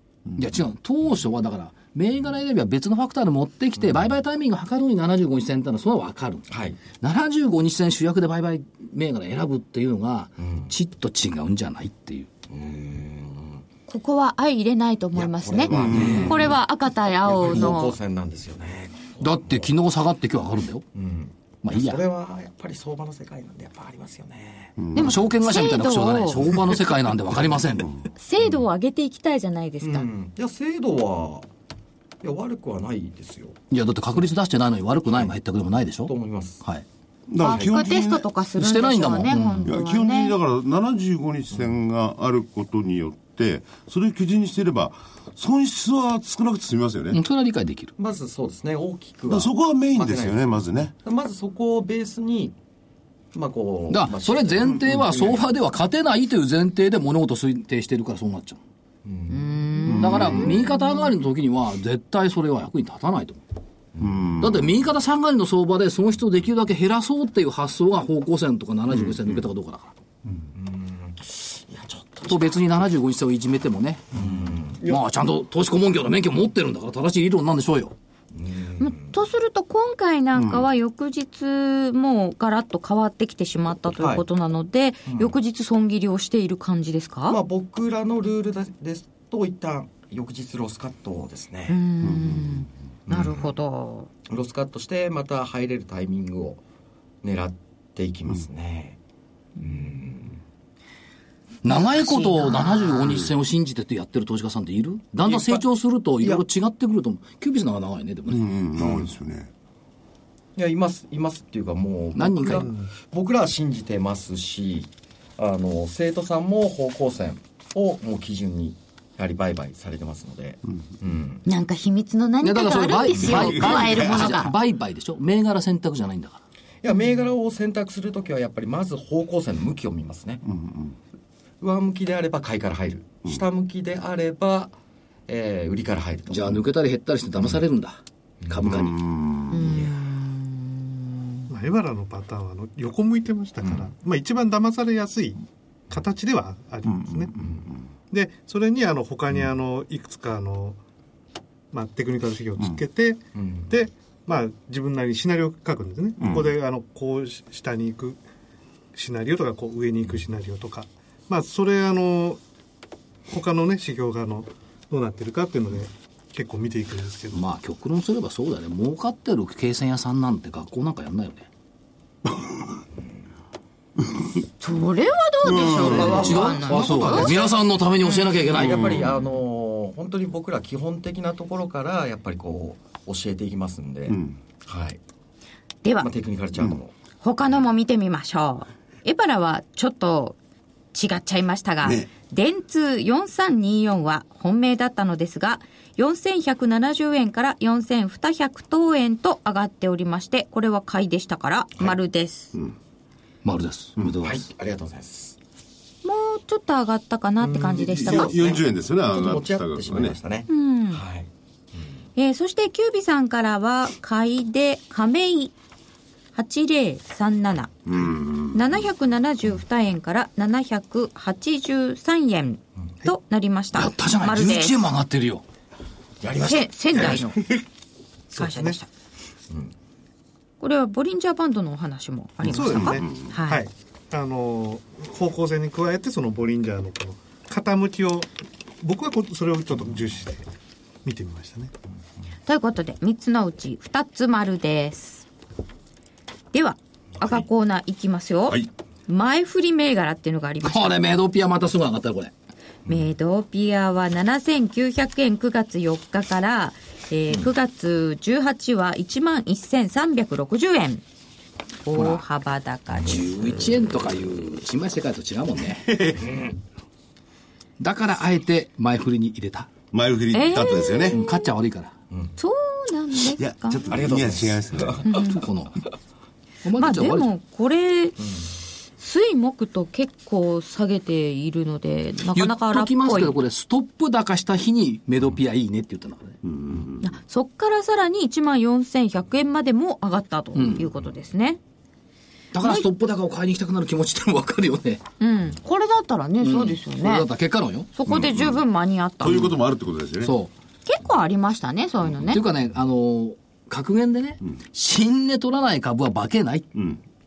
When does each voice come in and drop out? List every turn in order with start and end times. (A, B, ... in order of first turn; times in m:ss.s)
0:00.4-0:06.4 A
0:06.5-0:06.8 B
0:07.0-0:12.3 A
0:10.4-0:10.7 B
0:12.5-0:13.6 B
0:13.9-0:18.0 C
0:15.2-0:16.6 B
0:15.7-0:16.4 D
0:15.8-0:16.4 A
0:17.2-0:19.7 B
0:19.2-0:20.8 A
0:20.9-0:24.8 B
0:21.6-0:22.0 A
0:24.8-0:25.2 D
0:24.9-0:26.5 C
0:25.0-0:27.9 A
0:28.2-0:30.1 C
0:29.8-0:31.5 B
0:32.2-0:33.6 B
0:33.7-0:36.8 A
0:36.0-0:36.6 B
0:37.3-0:38.3 D
0:37.4-0:40.4 C
0:38.6-0:39.7 A
0:39.6-0:47.2 D
0:41.5-0:41.8 B
0:47.1-0:47.9 A
0:48.0-0:52.6 B
0:49.3-0:50.9 D
0:53.3-0:55.4 B
0:53.9-0:58.6 A
0:59.0-1:00.5 B
0:59.3-1:01.1 C
0:59.9-1:03.4 A
1:00.0-1:00.4 D
1:04.0-1:04.2 B
1:04.0-1:04.7 D
1:04.4-1:09.9 A
1:10.5-1:12.6 B
1:12.2-1:17.9 A
1:14.2-1:14.8 B
1:18.3-1:19.1 B
1:18.8-1:27.4 C
1:20.3-1:20.7 D
1:24.0-1:24.2 B
1:27.3-1:31.8 B
1:31.7-1:34.1 C
1:32.0-1:32.7 D
1:33.1-1:33.5 B
1:34.3-1:36.6 B
1:37.2-1:39.0 B
1:39.6-1:40.4 B
1:41.6-1:48.5 A
1:42.0-1:43.2 C
1:45.2-1:45.6 B
1:48.3-1:49.5 D
1:50.6-2:01.4 B
1:52.1-1:52.7 A
1:52.6-1:52.9 E
2:01.4-2:04.5 C
2:02.4-2:06.4 A
2:03.3-2:04.2 D
2:06.8-2:10.4 B
2:06.9-2:07.2 C
2:10.4-2:11.0 D
2:11.6-2:14.7 B
2:15.3-2:16.6 B
2:16.3-2:19.0 A
2:18.4-2:18.7 B
2:18.6-2:19.7 D
2:19.5-2:21.4 C
2:19.6-2:20.0 B
2:21.5-2:25.4 E
2:23.6-2:23.9 B
2:25.9-2:27.3 E
2:26.9-2:27.8 D
2:28.1-2:30.8 E
2:31.7-2:38.2 E
2:33.3-2:33.7 B
2:36.2-2:36.6 D
2:38.9-2:42.4 E
2:43.3-2:47.4 E
2:47.3-2:51.5 A
2:54.6-2:58.3 C
2:55.4-2:56.6 D
2:55.6-2:59.0 A
2:58.4-3:05.0 B
2:58.6-2:59.1 D
3:04.1-3:04.4 D
3:05.8-3:06.1 C
3:06.0-3:06.9 B
3:07.2-3:10.4 C
3:10.9-3:22.5 C
3:11.8-3:12.1 D
3:23.4-3:24.5 A
3:24.2-3:25.4 B
3:26.0-3:28.4 C
3:27.4-3:31.9 B
3:27.7-3:30.2 D
3:30.5-3:31.0 C
3:32.2-3:35.5 C
3:36.3-3:37.7 C
3:37.8-3:38.6 D
3:38.5-3:44.8 C
3:43.7-3:45.4 A
3:46.2-3:47.3 B
3:46.4-3:47.4 C
3:47.0-3:47.2 E
3:48.3-3:48.8 E
3:48.3-3:48.9 C
3:50.6-3:53.6 C
3:52.5-4:00.4 E
3:52.5-3:53.0 D
4:01.0-4:01.7 E
4:02.5-4:05.2 C
4:06.5-4:11.0 C
4:10.6-4:12.3 A
4:12.9-4:21.0 C
4:21.8-4:23.8 C
4:21.9-4:22.2 A
4:22.9-4:26.4 A
4:27.8-4:29.7 A
4:29.9-4:31.2 D
4:30.3-4:31.5 C
4:31.1-4:31.9 A
4:32.4-4:33.9 C
4:33.4-4:35.1 D
4:33.9-4:35.1 B
4:35.0-4:35.4 C
4:35.1-4:35.8 A
4:36.6-4:37.3 A
4:36.8-4:38.2 C
4:39.0-4:43.4 C
4:42.3-4:46.4 A
4:46.4-4:47.1 D
4:47.0-4:51.6 C
4:50.5-4:50.9 A
4:52.5-4:55.0 A
4:52.6-4:52.8 C
4:55.2-4:57.3 C
4:56.4-4:57.9 A
4:57.9-4:59.5 C
4:58.1-4:58.6 D
4:59.2-5:00.3 D
5:00.2-5:00.5 A
5:00.8-5:02.4 C
5:02.3-5:06.7 A
5:06.7-5:07.0 D